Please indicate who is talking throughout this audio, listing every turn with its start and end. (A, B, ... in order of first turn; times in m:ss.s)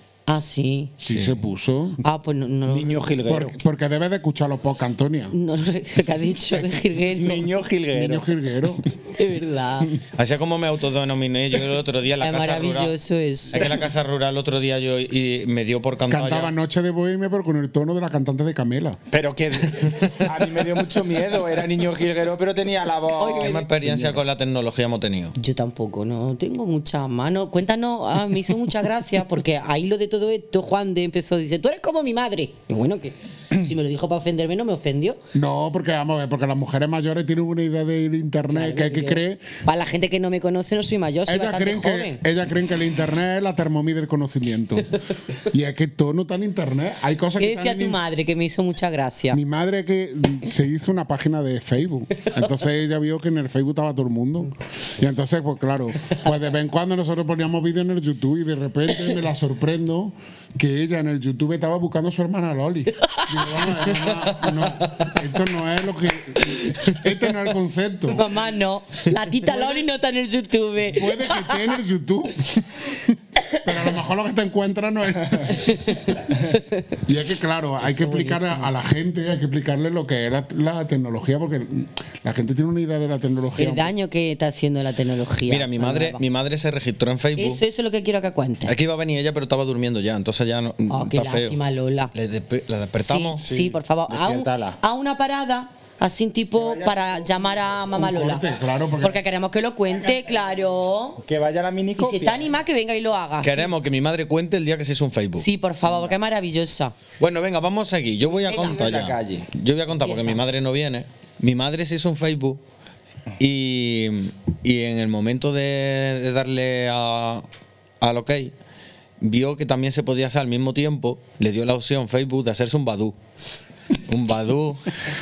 0:00.3-0:00.9 A
0:01.0-0:02.0 B
0:01.1-0:01.4 C
0:02.0-0:03.1 A
0:02.7-0:03.6 D
0:03.3-0:05.4 B
0:05.3-0:07.5 A
0:07.2-0:08.3 D
0:07.9-0:08.8 B
0:09.2-0:09.9 A
0:10.2-0:12.9 C
0:12.2-0:13.8 A
0:13.5-0:16.5 C
0:16.1-0:19.0 B
0:19.1-0:23.7 D
0:23.2-0:23.9 A
0:23.3-0:25.3 C
0:25.4-0:35.2 A
0:35.3-0:39.5 B
0:38.5-0:42.2 A
0:41.3-0:48.0 B
0:47.4-0:49.4 A
0:49.3-1:08.3 B
1:03.0-1:03.6 A
1:06.5-1:07.0 A
1:08.1-1:11.7 A
1:10.9-1:15.9 B
1:15.6-1:16.8 A
1:17.1-1:23.9 B
1:17.8-1:18.7 A
1:23.6-1:26.2 A
1:25.5-1:27.6 C
1:27.4-1:28.8 A
1:28.7-1:31.6 C
1:30.9-1:32.1 A
1:32.1-1:33.5 C
1:33.0-1:38.4 A
1:33.4-1:34.8 D
1:36.5-1:37.6 D
1:37.9-1:39.2 B
1:39.0-1:41.2 A
1:41.2-1:42.5 D
1:42.0-1:43.7 A
1:43.4-1:45.5 C
1:45.4-1:46.9 A
1:47.2-1:52.6 C
1:48.4-1:49.5 D
1:48.5-1:48.8 A
1:50.0-1:50.4 A
1:53.4-1:57.5 C
1:58.0-1:58.5 C
1:59.2-2:03.2 C
2:04.1-2:04.9 C